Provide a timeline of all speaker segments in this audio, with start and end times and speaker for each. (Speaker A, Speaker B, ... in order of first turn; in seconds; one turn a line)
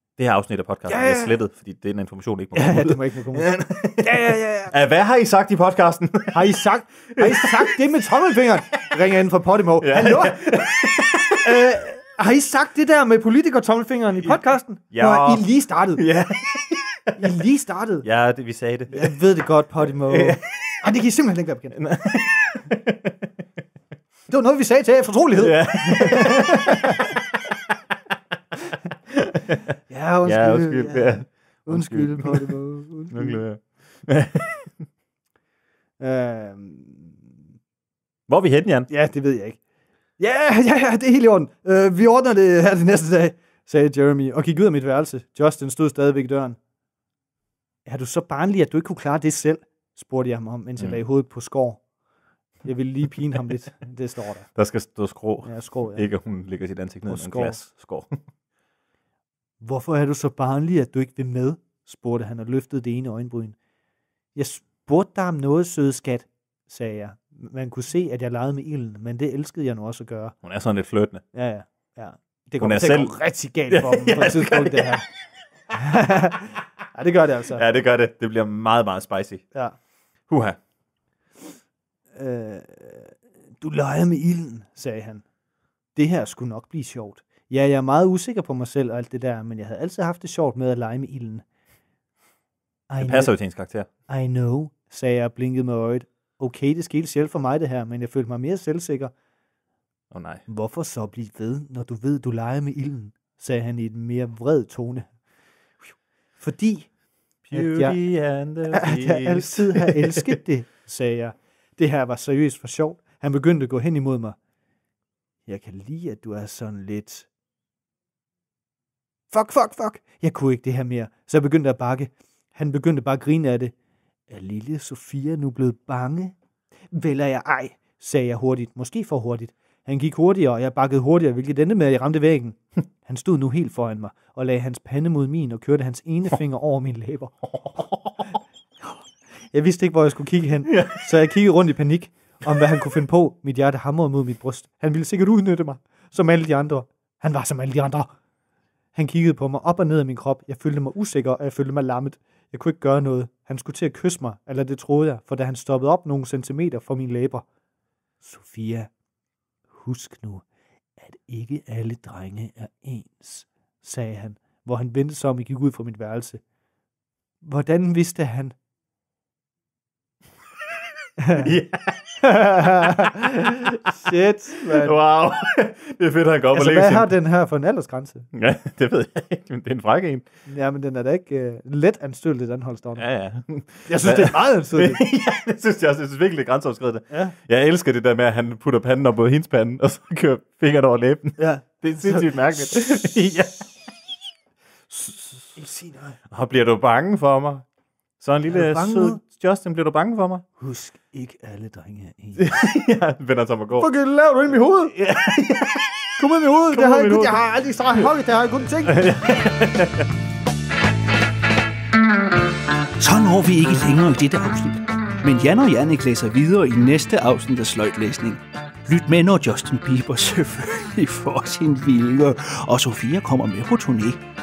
Speaker A: 0.2-6.5
Speaker B: 0.9-1.3
Speaker B: 2.5-4.7
Speaker B: 6.3-10.4
Speaker A: 7.2-7.7
Speaker A: 9.8-11.5
Speaker B: 11.4-16.0
Speaker A: 14.2-17.3
Speaker B: 17.2-18.1
Speaker A: 18.0-19.2
Speaker B: 18.9-21.8
Speaker A: 20.1-20.9
Speaker A: 21.7-23.3
Speaker B: 24.3-27.1
Speaker A: 25.4-27.2
Speaker A: 29.1-29.6
Speaker B: 29.9-33.4
Speaker A: 30.2-32.6
Speaker A: 33.1-34.8
Speaker B: 36.0-37.2
Speaker A: 38.3-38.9
Speaker B: 38.9-39.6
Speaker B: 40.2-46.6
Speaker B: 47.9-51.8
Speaker B: 52.6-54.5
Speaker A: 54.6-58.2
Speaker B: 55.4-56.1
Speaker B: 57.1-57.6
Speaker B: 59.6-63.6
Speaker B: 64.3-70.4
Speaker A: 70.4-71.2
Speaker B: 71.3-75.1
Speaker A: 72.6-75.0
Speaker B: 75.7-77.6
Speaker A: 77.5-79.5
Speaker A: 80.3-80.6
Speaker B: 82.2-85.2
Speaker B: 86.0-91.5
Speaker B: 92.9-93.3
Speaker A: 93.0-93.9
Speaker B: 94.1-99.1
Speaker A: 100.1-100.4
Speaker B: 100.5-105.1
Speaker B: 106.4-106.9
Speaker A: 107.5-110.4
Speaker B: 107.5-108.0
Speaker B: 108.7-114.4
Speaker B: 115.5-117.3
Speaker B: 119.3-123.7
Speaker B: 124.3-126.3
Speaker B: 126.9-137.5
Speaker B: 139.5-148.1
Speaker A: 140.7-141.1
Speaker B: 148.9-157.4
Speaker B: 158.2-158.9
Speaker B: 159.7-160.4
Speaker B: 161.0-166.4
Speaker B: 167.4-168.6
Speaker B: 171.2-171.5
Speaker A: 171.4-177.1
Speaker B: 172.2-175.0
Speaker B: 176.5-178.3
Speaker A: 178.3-180.2
Speaker B: 180.5-183.1
Speaker A: 183.0-193.9
Speaker B: 183.9-185.0
Speaker B: 187.1-187.3
Speaker B: 191.4-193.3
Speaker A: 194.9-195.6
Speaker B: 195.6-196.2
Speaker A: 196.3-197.7
Speaker A: 198.2-200.4
Speaker B: 198.5-199.2
Speaker B: 200.6-202.5
Speaker A: 202.4-203.9
Speaker B: 203.8-204.9
Speaker A: 204.9-206.2
Speaker B: 206.2-209.1
Speaker A: 206.7-207.4
Speaker A: 208.9-210.1
Speaker C: 213.0-224.2